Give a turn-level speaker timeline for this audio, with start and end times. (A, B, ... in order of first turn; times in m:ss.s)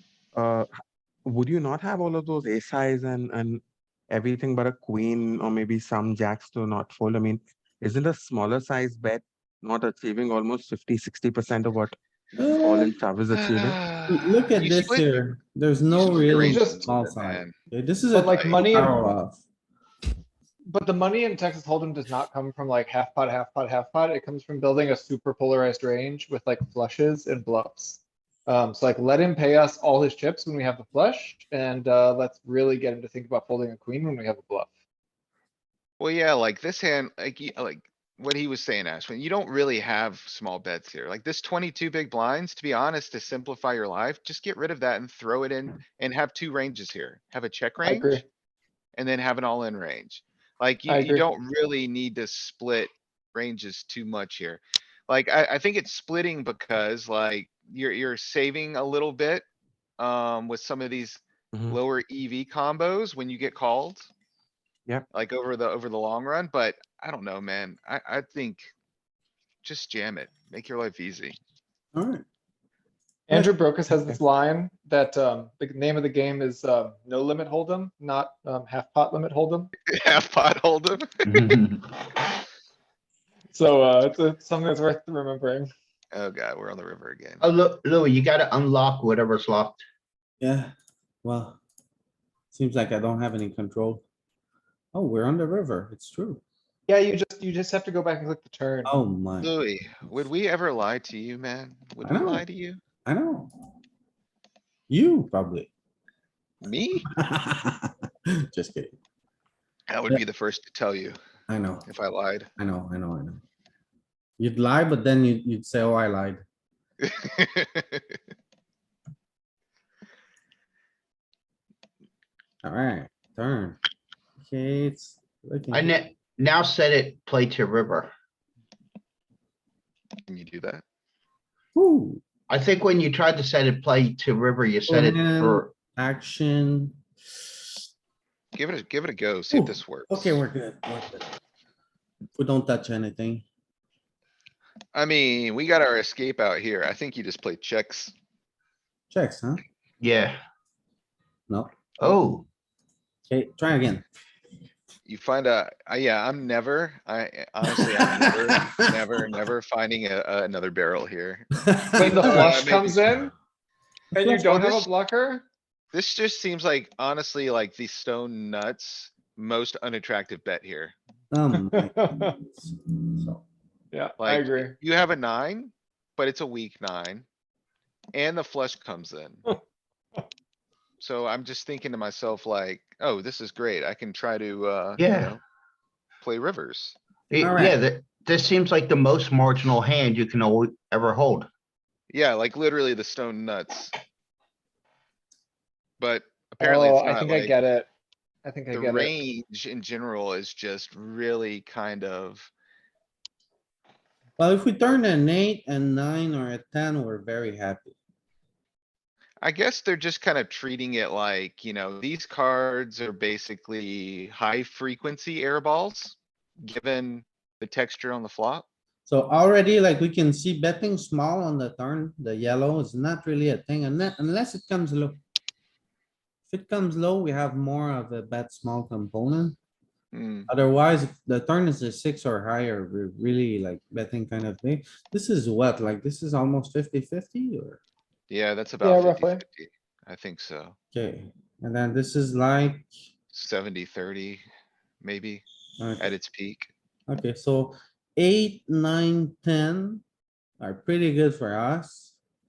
0:00.3-0:00.7 A
0:01.2-0:12.0 A
0:12.4-0:13.0 B
0:12.6-0:13.8 A
0:13.3-0:15.3 C
0:14.1-0:19.4 B
0:15.9-0:17.6 C
0:16.4-0:16.9 D
0:18.1-0:19.0 D
0:18.3-0:18.6 C
0:20.7-0:34.7 D
0:36.0-0:48.2 C
0:47.8-0:48.2 D
0:49.0-0:59.4 C
0:50.9-0:51.3 D
1:00.0-1:04.1 C
1:01.5-1:01.8 A
1:05.1-1:08.7 C
1:09.6-1:11.4 C
1:11.9-1:12.2 B
1:13.3-1:19.7 D
1:19.9-1:21.5 C
1:21.3-1:21.9 E
1:23.5-1:25.7 D
1:26.1-1:27.4 C
1:27.4-1:29.8 E
1:30.4-1:31.6 B
1:32.5-1:34.0 B
1:34.9-1:36.4 B
1:36.9-1:39.0 D
1:38.8-1:39.5 B
1:39.4-1:42.8 C
1:42.0-1:42.4 B
1:43.1-1:43.5 B
1:44.9-1:45.7 B
1:46.6-1:47.1 C
1:47.1-1:47.9 B
1:48.5-1:49.0 B
1:49.9-1:51.2 C
1:51.5-1:51.9 B
1:51.8-1:52.5 C
1:52.6-1:53.4 B
1:54.4-1:56.4 B
1:57.0-1:58.2 C
2:02.6-2:03.8 B
2:04.4-2:06.0 B
2:05.7-2:08.1 E
2:10.3-2:10.8 C
2:11.8-2:12.2 B
2:12.5-2:15.7 E
2:14.9-2:17.0 B
2:18.5-2:20.4 C
2:19.5-2:21.3 B
2:22.4-2:23.4 B
2:24.9-2:28.1 C
2:29.1-2:29.6 B
2:30.0-2:30.4 E
2:31.5-2:32.2 B
2:32.0-2:32.5 E
2:33.3-2:34.1 B
2:35.1-2:43.3 C
2:41.6-2:42.7 B
2:42.0-2:43.3 D
2:44.1-2:45.5 D
2:44.1-2:44.6 B
2:44.5-2:44.9 C
2:45.9-2:51.0 C
2:51.3-2:53.4 B
2:51.6-2:52.4 D
2:53.9-2:54.8 D
2:54.2-2:57.3 C
2:58.1-2:59.4 C
3:01.0-3:05.4 C
3:05.0-3:05.4 E
3:06.2-3:07.0 C
3:07.3-3:11.5 E
3:07.4-3:07.8 B
3:12.1-3:14.0 C
3:16.0-3:17.6 C
3:16.6-3:17.9 D
3:18.4-3:19.1 D
3:18.7-3:22.5 C
3:24.4-3:28.0 B
3:29.4-3:38.7 C
3:39.1-3:45.2 B
3:46.5-3:49.6 B
3:50.1-3:50.5 C
3:50.5-3:57.8 B
3:58.3-4:00.8 C
3:58.8-3:59.4 D
4:00.9-4:02.9 B
4:03.3-4:04.4 C
4:05.0-4:05.4 C
4:05.8-4:06.1 B
4:06.0-4:06.7 C
4:07.1-4:10.0 B
4:10.6-4:12.2 B